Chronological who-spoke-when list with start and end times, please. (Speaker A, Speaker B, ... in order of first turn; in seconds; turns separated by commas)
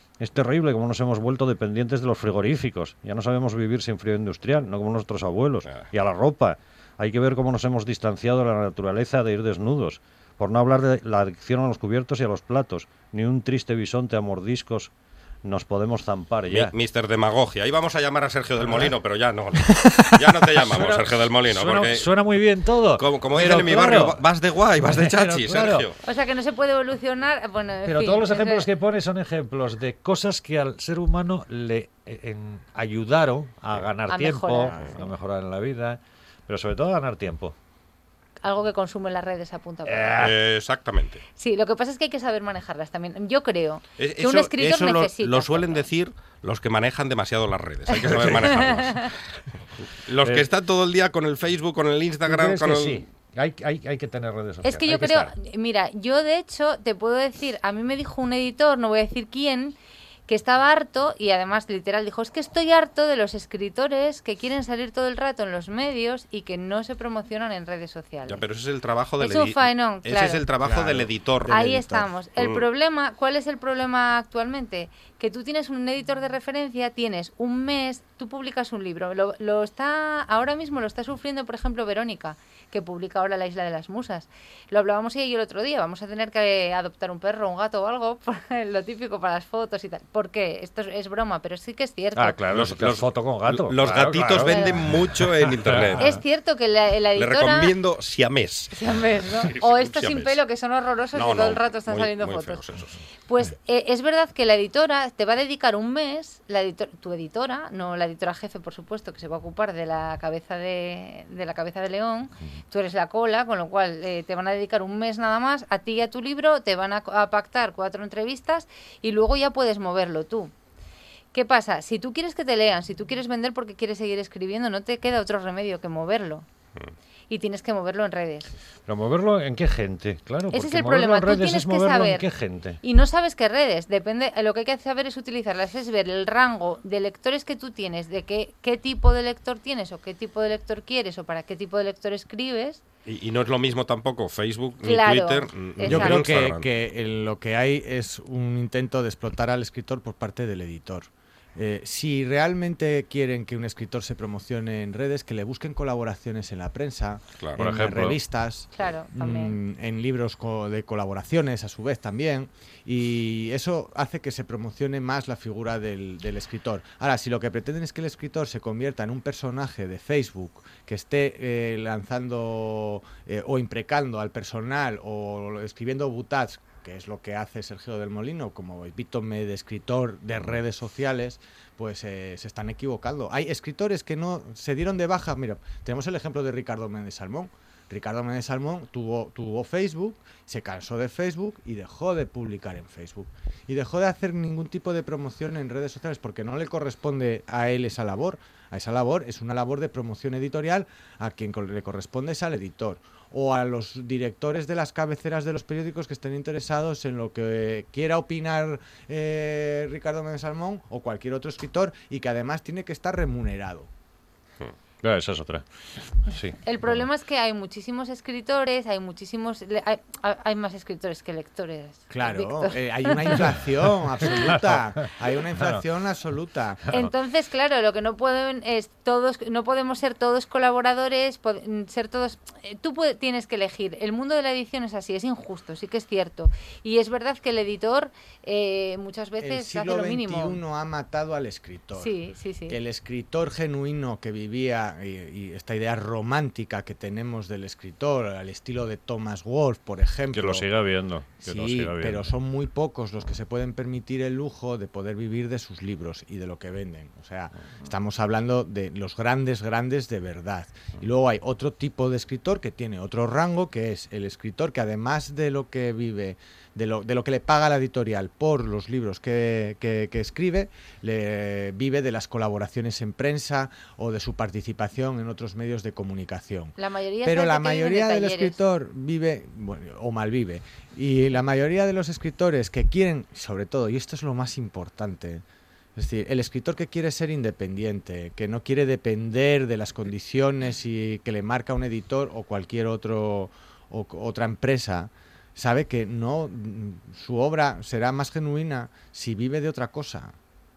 Speaker A: 0.2-14.9, Speaker A: 15.4-16.7, Speaker B: 16.5-22.1, Speaker C: 19.7-20.0, Speaker A: 20.6-24.2, Speaker B: 23.0-25.9, Speaker A: 24.8-25.9, Speaker D: 26.0-28.7, Speaker A: 27.8-37.5, Speaker D: 34.0-35.0, Speaker D: 38.4-40.3, Speaker A: 39.8-40.3, Speaker B: 40.2-41.2, Speaker D: 41.4-45.9, Speaker B: 44.0-49.0, Speaker D: 48.5-49.1, Speaker B: 50.0-53.0, Speaker A: 50.2-50.5, Speaker A: 52.2-55.3, Speaker D: 54.6-59.8, Speaker D: 60.3-68.4, Speaker B: 68.2-71.6, Speaker D: 69.2-70.5, Speaker C: 70.6-72.1, Speaker D: 71.5-92.5, Speaker B: 72.4-72.7, Speaker A: 92.1-96.0, Speaker B: 92.5-96.2, Speaker D: 94.4-94.8, Speaker D: 96.0-97.8, Speaker B: 97.1-98.7, Speaker D: 98.7-102.6, Speaker B: 99.4-100.4, Speaker B: 101.1-102.9, Speaker D: 103.3-120.5, Speaker D: 121.3-126.5, Speaker D: 127.3-128.5, Speaker A: 128.8-132.8, Speaker D: 130.5-132.3, Speaker D: 132.8-142.8, Speaker B: 143.1-146.6, Speaker D: 144.8-146.3, Speaker C: 145.8-213.9, Speaker B: 157.4-157.7, Speaker A: 157.6-158.2, Speaker D: 158.7-159.6, Speaker A: 215.0-215.6, Speaker A: 216.2-217.0, Speaker D: 216.6-223.5, Speaker C: 222.1-226.8, Speaker D: 224.2-224.5, Speaker A: 224.2-224.7, Speaker D: 226.9-240.6, Speaker C: 239.4-242.1, Speaker D: 241.9-242.8, Speaker C: 242.7-250.6, Speaker A: 250.3-252.3, Speaker C: 251.4-285.4, Speaker D: 276.8-278.6, Speaker C: 285.9-300.4